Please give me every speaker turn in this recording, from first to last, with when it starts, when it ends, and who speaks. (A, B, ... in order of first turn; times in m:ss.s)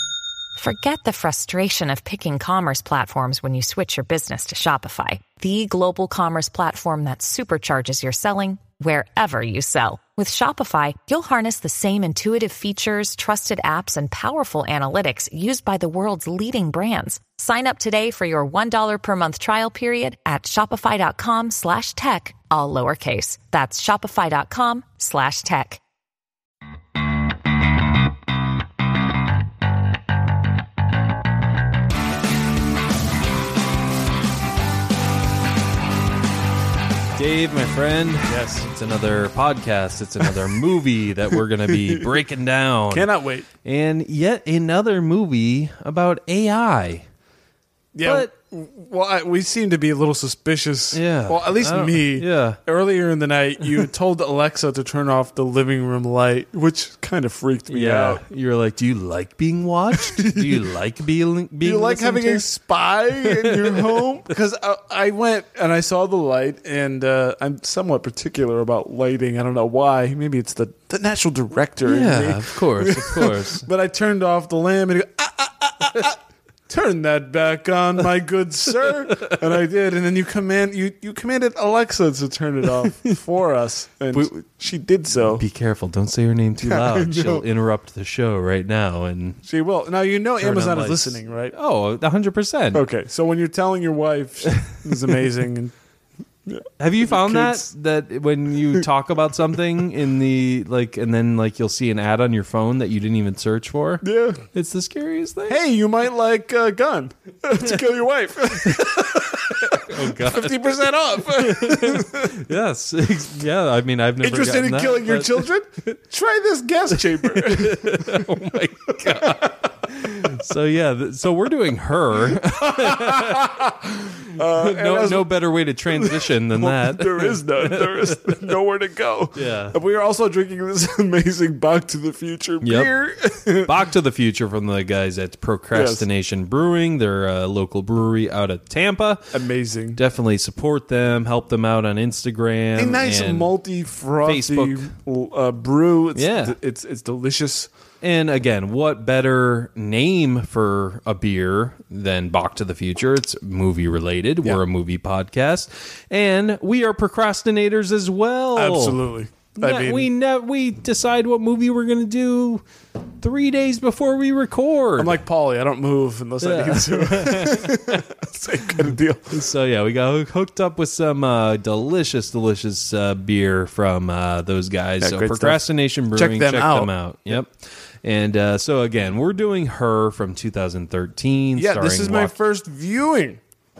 0:00.6-0:25.8 A
0:37.2-0:43.1 B
0:38.3-0:38.6 C
0:41.7-0:42.1 C
0:42.9-0:43.5 C
0:43.6-0:47.0 B
0:47.9-0:58.2 C
0:48.0-0:48.3 B
0:50.9-0:52.6 B
0:57.7-1:02.4 B
0:59.9-1:00.6 C
1:01.6-1:25.4 C
1:03.2-1:04.0 B
1:11.8-1:13.7 B
1:24.1-1:24.4 B
1:25.4-1:29.4 B
1:26.6-1:27.4 C
1:29.4-1:31.5 C
1:30.4-1:32.8 B
1:32.7-1:35.7 C
1:34.7-1:35.1 B
1:36.5-1:37.6 C
1:36.8-1:44.0 B
1:44.0-1:44.4 C
1:44.5-1:45.6 B
1:45.5-1:52.4 C
1:48.5-1:55.5 B
1:54.2-1:59.6 C
1:56.9-2:03.7 B
2:02.5-2:05.3 C
2:04.2-2:08.5 B
2:05.9-2:13.7 C
2:09.3-2:09.8 B
2:12.6-2:12.9 B
2:13.6-2:19.3 B
2:15.7-2:16.0 C
2:19.3-2:20.0 C
2:20.0-2:23.5 B
2:22.8-2:27.7 C
2:24.2-2:24.9 B
2:26.1-2:26.5 B
2:28.0-2:39.0 B
2:38.6-2:40.1 C
2:39.6-2:42.6 B
2:43.2-2:45.2 B
2:45.0-2:49.3 C
2:46.4-2:48.1 B
2:48.7-3:02.3 B
2:55.0-2:55.6 C
2:56.1-2:56.9 C
3:01.6-3:03.4 C